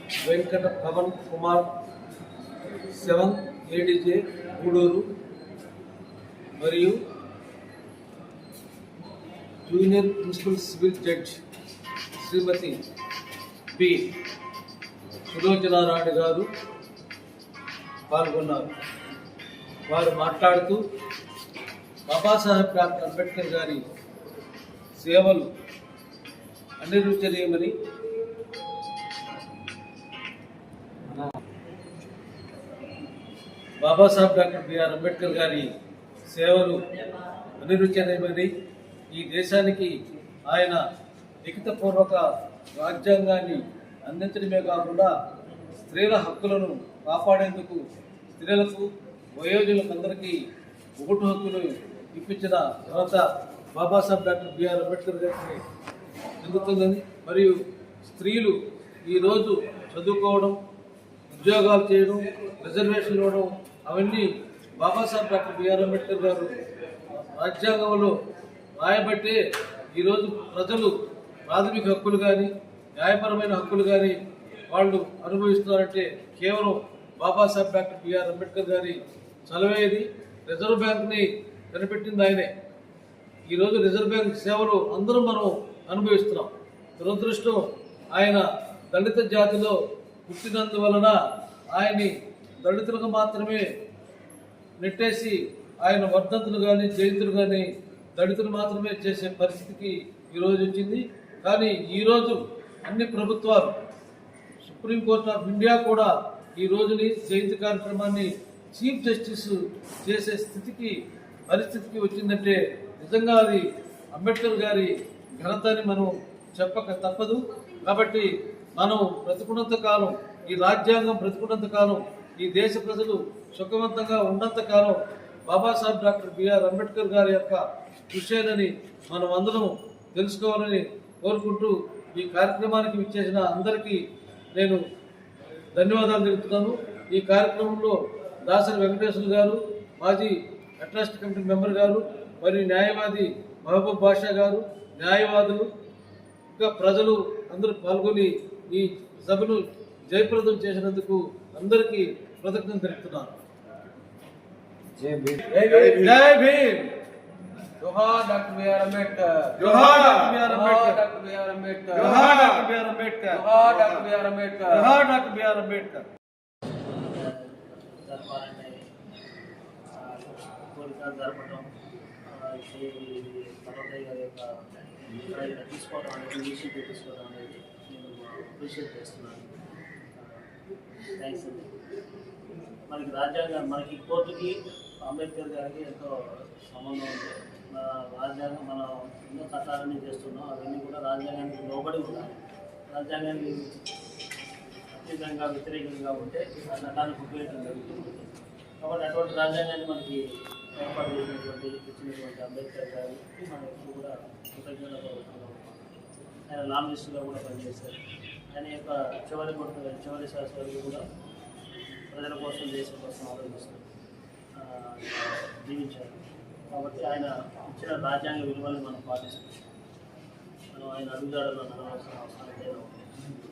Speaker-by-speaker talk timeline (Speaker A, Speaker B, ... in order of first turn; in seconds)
Speaker A: 0.2-1.6, 2.9-5.1, 6.6-7.0, 9.7-11.4, 12.2-12.8, 13.7-14.1, 15.3-16.4, 18.1-18.7, 19.9-20.8, 22.1-23.8, 25.0-25.5, 26.8-27.7, 33.8-35.7, 36.3-36.8, 37.6-38.5, 39.1-39.9, 40.5-40.8, 41.4-45.1, 45.9-47.8, 48.4-50.4, 51.0-55.6, 56.4-60.6, 61.3-66.5, 67.2-68.1, 68.8-69.4, 69.9-70.9, 71.5-74.2, 74.7-82.5, 83.5-91.1, 91.7-93.7, 94.8-103.7, 104.6-111.0, 111.5-134.0, 134.5-134.8, 135.7-145.7, 146.5-153.3, 155.4-156.9, 159.6-161.1, 161.9-166.1
Speaker B: 155.0-155.3, 157.8-159.4, 161.1-161.9, 164.1-164.6
Speaker C: 166.9-168.9, 169.9-171.7, 172.3-179.6, 180.2-180.4, 181.1-181.7, 182.8-193.8, 194.9-205.9, 206.5-208.0, 208.5-211.1, 212.1-213.8, 214.5-219.6, 220.7-223.1